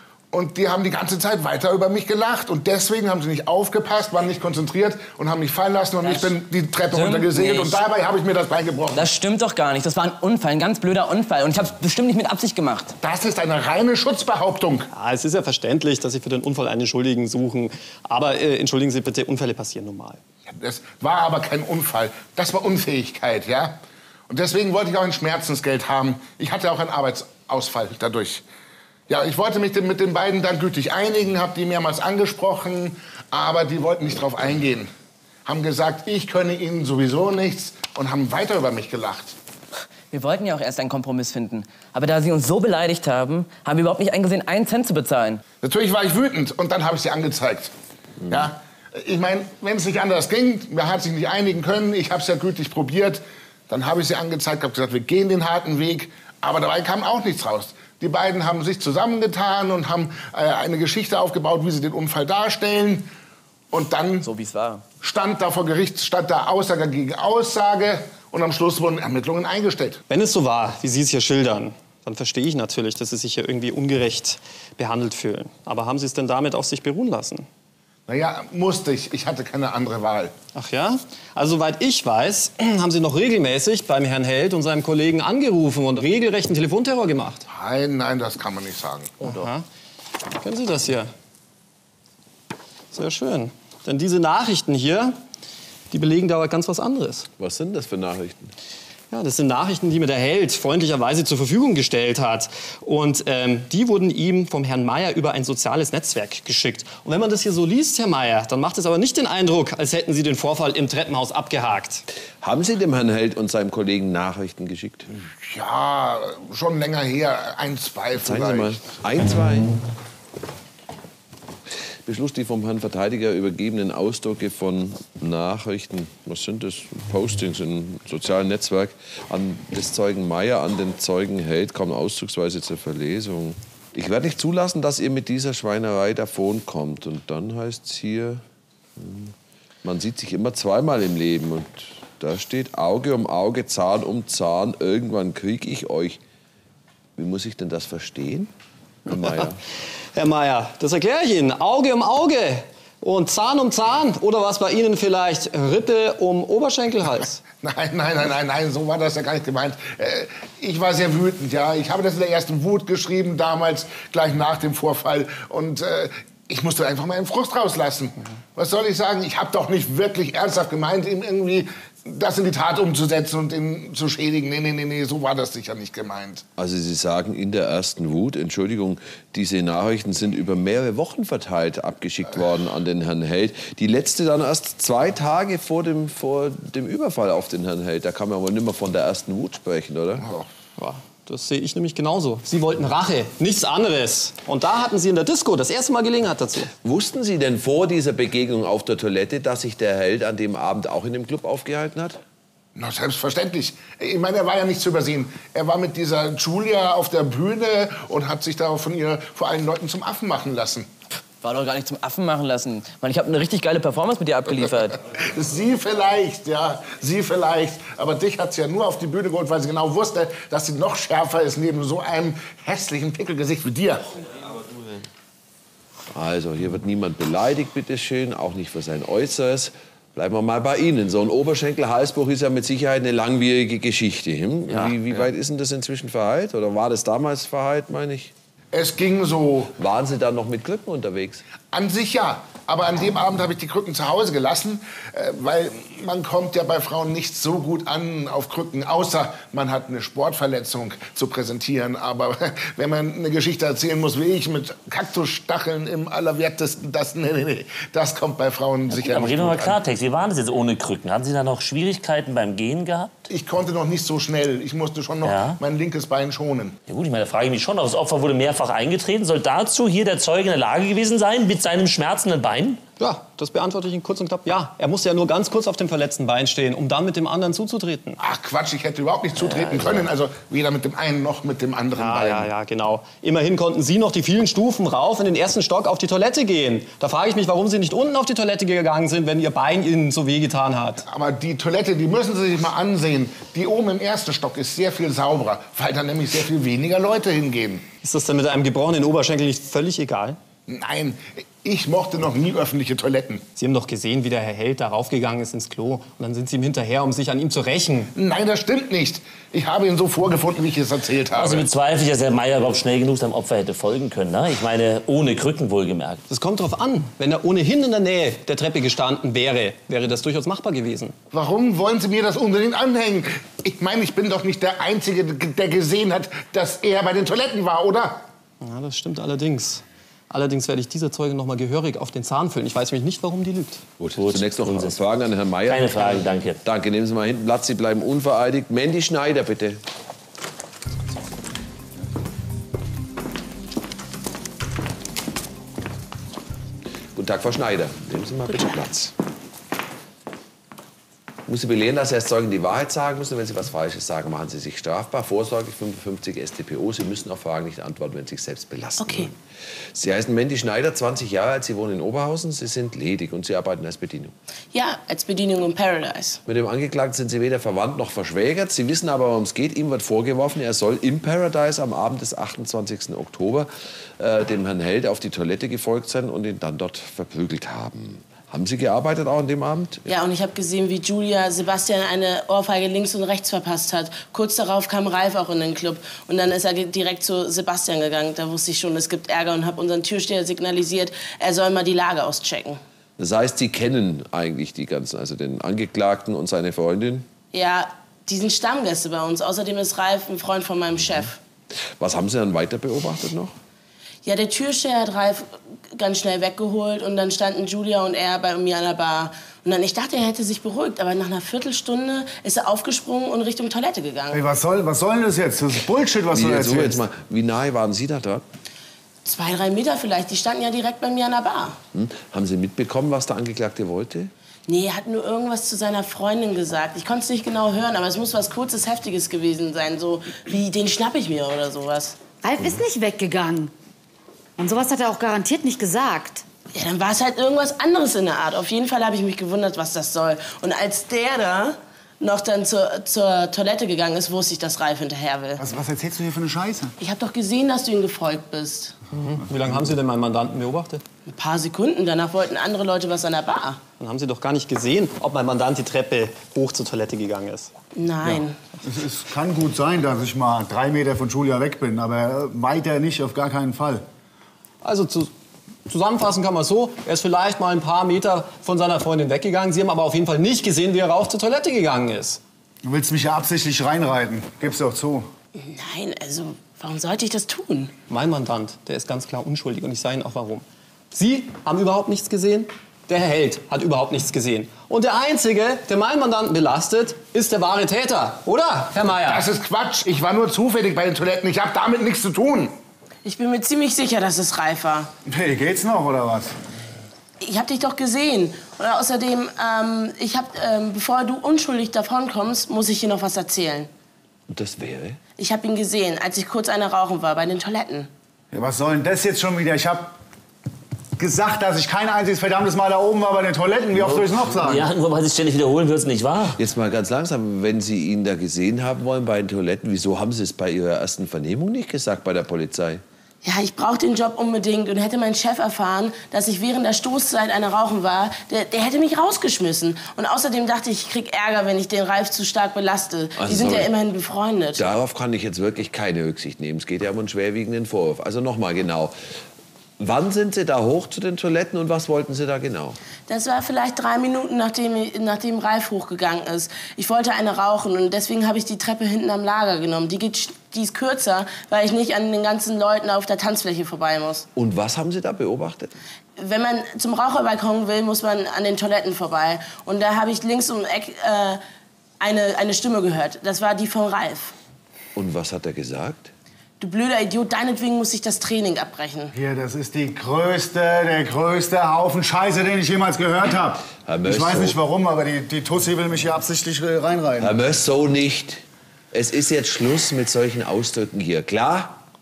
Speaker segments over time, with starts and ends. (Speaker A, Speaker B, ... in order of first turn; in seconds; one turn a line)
Speaker A: 0.3-9.1
Speaker B: 6.0-6.3
Speaker B: 6.9-7.8
Speaker B: 8.9-13.0
Speaker A: 13.0-14.9
Speaker C: 14.9-20.2
Speaker A: 20.5-28.4
Speaker A: 29.1-34.9
Speaker A: 35.5-39.4
Speaker B: 40.1-45.4
Speaker A: 45.6-47.7
Speaker A: 48.3-63.1
Speaker A: 63.7-64.3
Speaker B: 64.2-64.8
Speaker A: 65.0-70.0
Speaker C: 70.1-77.5
Speaker A: 78.1-80.3
Speaker C: 80.5-87.4
Speaker A: 87.5-89.2
Speaker C: 89.2-89.7
Speaker C: 90.4-91.1
Speaker C: 92.9-95.2
Speaker C: 95.9-97.3
Speaker D: 97.4-98.5
Speaker C: 99.1-112.0
Speaker D: 112.4-115.1
Speaker A: 115.2-118.8
Speaker D: 118.2-119.8
Speaker D: 122.1-138.4
Speaker D: 139.0-146.2
Speaker D: 147.2-148.5
Speaker D: 149.1-149.6
Speaker C: 150.1-157.4
Speaker A: 157.6-176.4
Speaker D: 176.6-190.3
Speaker A: 190.2-190.5
Speaker C: 190.8-196.7
Speaker D: 196.8-202.2
Speaker A: 202.8-210.9
Speaker B: 211.4-215.0
Speaker A: 214.5-224.0
Speaker D: 226.1-238.3
Speaker E: 234.7-235.2
Speaker A: 238.7-239.7
Speaker D: 239.8-241.4
Speaker A: 241.7-259.8
Speaker E: 258.9-263.3
Speaker A: 263.3-266.8
Speaker E: 265.2-265.6
Speaker E: 266.9-272.8
Speaker C: 273.0-278.2
Speaker A: 278.2-282.5
Speaker E: 279.4-280.1
Speaker C: 281.9-291.1
Speaker A: 291.1-297.9
Speaker C: 298.0-300.4
Speaker A: 300.7-303.4
Speaker C: 303.6-308.1
Speaker A: 308.1-311.7
Speaker E: 311.4-316.2
Speaker C: 316.3-321.1
Speaker A: 321.3-328.2
Speaker C: 328.6-333.8
Speaker D: 334.0-339.8
Speaker E: 334.2-335.0
Speaker E: 335.7-336.6
Speaker D: 347.1-349.1
Speaker D: 351.5-359.4
Speaker F: 359.0-359.3
Speaker D: 359.9-364.3
Speaker F: 364.7-366.4
Speaker D: 366.5-380.1
Speaker F: 380.1-392.8
Speaker D: 393.2-397.3
Speaker F: 397.5-401.4
Speaker D: 402.0-403.6
Speaker F: 404.2-414.4
Speaker G: 414.3-417.0
Speaker D: 416.3-418.4
Speaker F: 419.2-421.8
Speaker D: 421.9-424.3
Speaker F: 424.7-432.2
Speaker H: 432.4-433.7
Speaker H: 434.6-436.4
Speaker F: 436.7-445.6
Speaker G: 445.6-446.9
Speaker F: 447.0-449.0
Speaker C: 449.1-451.0
Speaker F: 451.3-453.8
Speaker C: 454.0-457.7
Speaker F: 457.9-458.6
Speaker G: 458.3-464.1
Speaker C: 464.8-465.3
Speaker C: 465.9-472.4
Speaker G: 472.8-475.3
Speaker F: 475.6-477.9
Speaker C: 478.1-489.5
Speaker A: 489.2-492.7
Speaker F: 493.2-495.1
Speaker G: 495.3-496.5
Speaker F: 497.4-503.9
Speaker D: 504.5-505.2
Speaker F: 505.4-508.1
Speaker G: 508.5-510.1
Speaker G: 511.2-514.9
Speaker E: 514.0-516.6
Speaker D: 516.6-523.0
Speaker F: 523.4-534.9
Speaker D: 533.4-533.9
Speaker D: 534.8-539.1
Speaker D: 540.0-543.0
Speaker F: 543.3-554.5
Speaker D: 554.6-555.9
Speaker F: 556.4-561.6
Speaker F: 562.2-564.5
Speaker D: 565.1-566.3
Speaker F: 566.8-569.3
Speaker G: 569.3-577.6
Speaker D: 574.0-574.8
Speaker D: 577.4-582.0